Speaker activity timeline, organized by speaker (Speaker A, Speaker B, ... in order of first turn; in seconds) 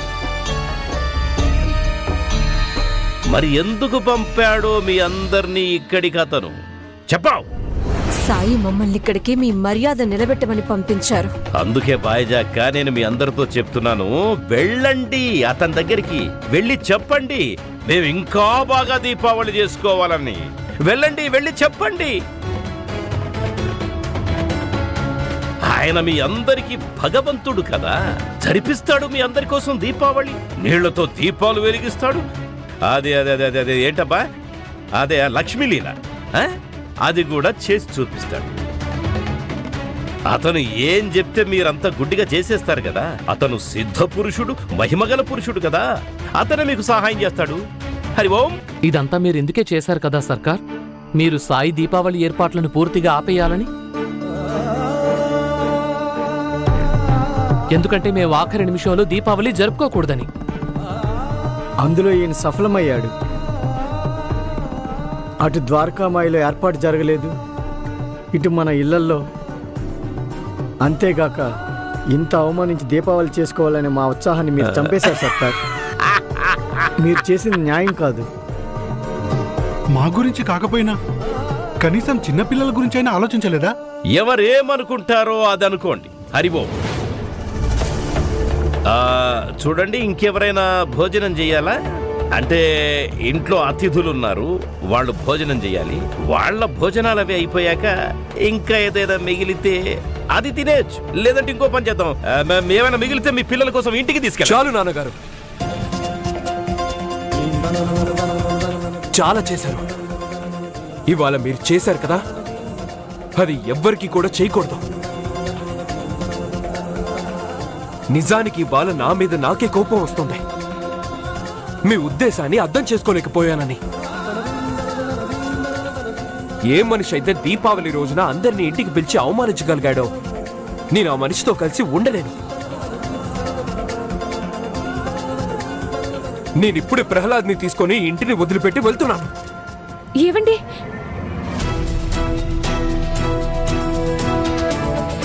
Speaker A: 3.3-6.6, 7.1-7.5, 11.6-22.2, 25.7-32.2, 32.9-34.2, 35.0-38.5, 40.3-45.9, 46.4-47.6, 48.2-48.6, 84.1-86.7, 88.9-91.8, 92.4-92.6, 93.2-97.9, 98.5-99.8, 100.3-104.6
Speaker B: 8.2-11.3, 140.2-140.6
Speaker C: 48.9-50.6, 51.2-53.7, 57.8-60.3
Speaker D: 61.9-63.1, 65.5-67.3, 68.3-69.2, 70.8-71.4, 72.1-75.5, 77.0-78.2
Speaker E: 80.0-81.0, 81.8-83.7
Speaker F: 104.4-105.2, 109.1-109.8, 111.1-112.2, 113.4-114.8, 118.1-120.4, 121.9-123.8, 126.7-130.1, 130.9-132.4, 136.6-139.3